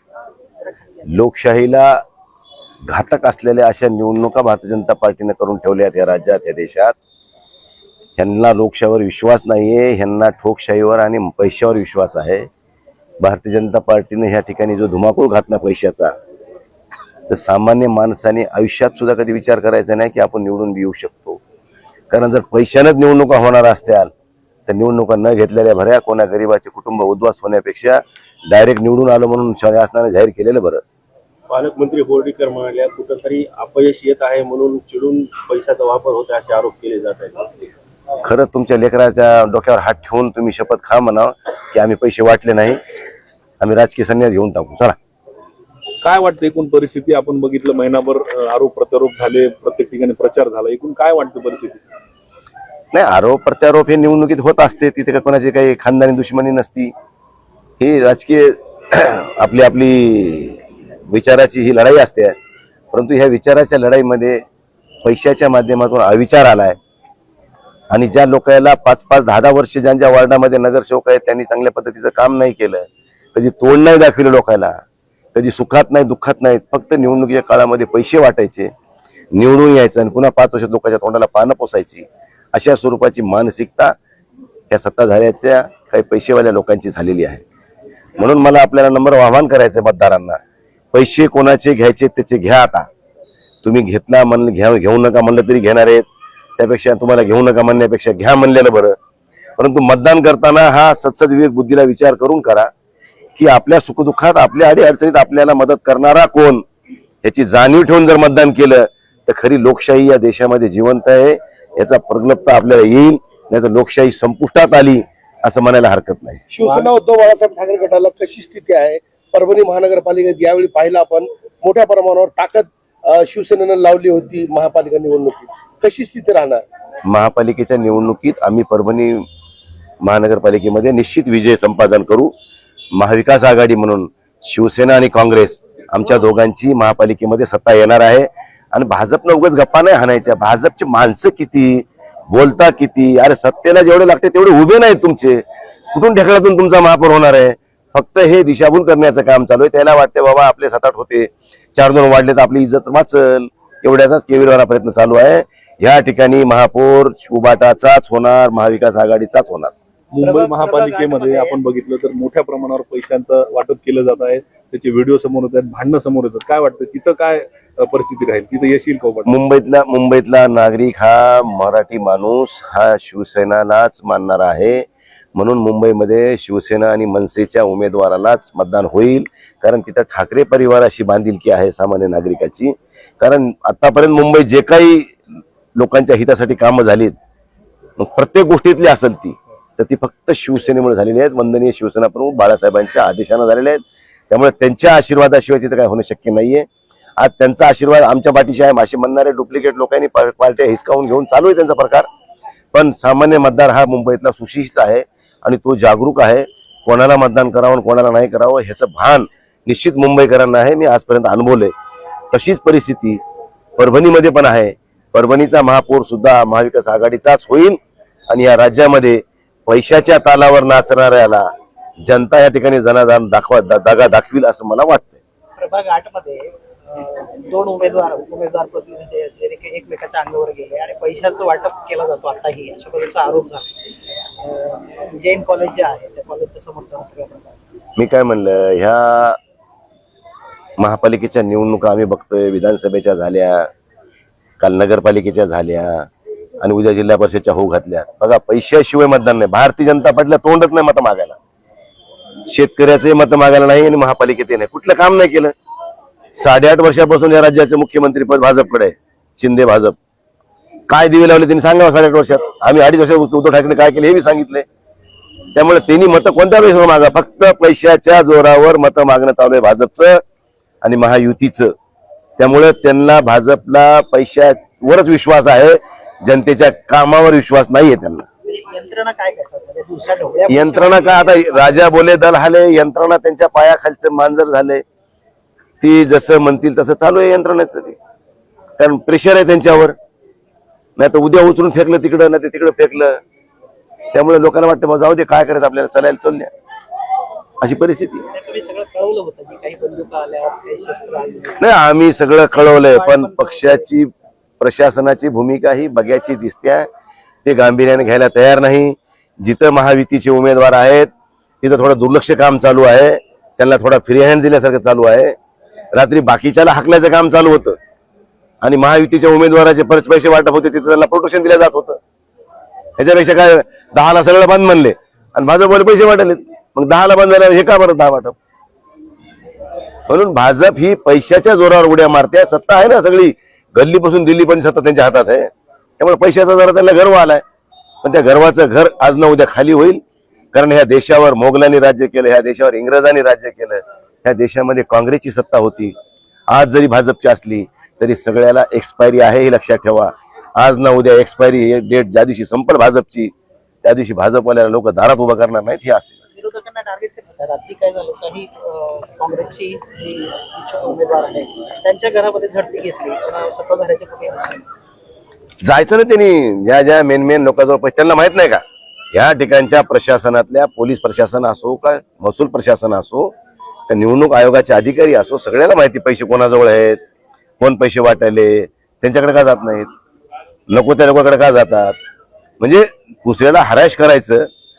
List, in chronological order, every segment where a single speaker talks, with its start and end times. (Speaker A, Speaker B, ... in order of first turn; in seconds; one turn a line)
Speaker A: 0.7-1.0
Speaker B: 1.1-2.0
Speaker B: 2.9-6.9
Speaker B: 8.2-12.5
Speaker B: 13.2-16.1
Speaker B: 17.3-21.4
Speaker B: 22.1-24.1
Speaker B: 24.7-30.8
Speaker C: 31.5-37.6
Speaker B: 38.2-42.8
Speaker B: 43.6-45.0
Speaker D: 46.0-51.8
Speaker B: 52.9-56.9
Speaker B: 57.8-62.3
Speaker B: 62.9-64.4
Speaker B: 65.0-66.8
Speaker B: 67.9-74.8
Speaker B: 75.3-78.7
Speaker B: 79.3-84.0
Speaker B: 84.7-87.4
Speaker B: 88.2-90.4
Speaker B: 90.9-92.9
Speaker B: 93.6-96.1
Speaker B: 96.6-99.0
Speaker B: 99.6-102.7
Speaker B: 103.4-106.6
Speaker B: 107.2-116.4
Speaker E: 116.5-126.6
Speaker B: 127.1-129.3
Speaker B: 130.0-132.3
Speaker B: 133.0-145.4
Speaker B: 145.9-159.7
Speaker D: 160.1-169.3
Speaker A: 160.2-161.6
Speaker B: 169.3-185.2
Speaker B: 185.8-187.2
Speaker B: 188.0-196.7
Speaker B: 197.2-202.1
Speaker B: 202.7-211.7
Speaker B: 212.3-213.2
Speaker B: 213.8-217.8
Speaker B: 218.3-221.5
Speaker B: 222.0-225.2
Speaker A: 225.6-233.7
Speaker A: 234.4-237.6
Speaker B: 238.0-239.4
Speaker B: 240.8-243.7
Speaker B: 244.6-246.1
Speaker B: 246.6-251.4
Speaker B: 252.5-255.5
Speaker B: 256.4-260.0
Speaker B: 260.9-264.6
Speaker B: 265.6-270.2
Speaker B: 270.8-271.7
Speaker B: 272.4-278.3
Speaker A: 278.4-281.9
Speaker B: 280.5-284.8
Speaker B: 285.8-288.0
Speaker B: 288.8-289.9
Speaker B: 291.0-293.2
Speaker B: 294.1-296.5
Speaker B: 297.6-298.3
Speaker A: 298.3-301.6
Speaker B: 301.6-306.9
Speaker A: 302.4-303.9
Speaker B: 307.4-311.1
Speaker B: 311.6-315.4
Speaker B: 315.9-317.8
Speaker B: 318.6-322.0
Speaker B: 323.0-328.4
Speaker B: 330.1-337.4
Speaker B: 338.0-340.0
Speaker B: 340.5-345.9
Speaker B: 346.5-353.3
Speaker B: 353.8-356.2
Speaker A: 356.3-364.6
Speaker B: 365.6-368.6
Speaker B: 369.1-373.3
Speaker B: 373.9-377.0
Speaker B: 377.6-379.9
Speaker B: 380.7-382.0
Speaker B: 382.6-384.5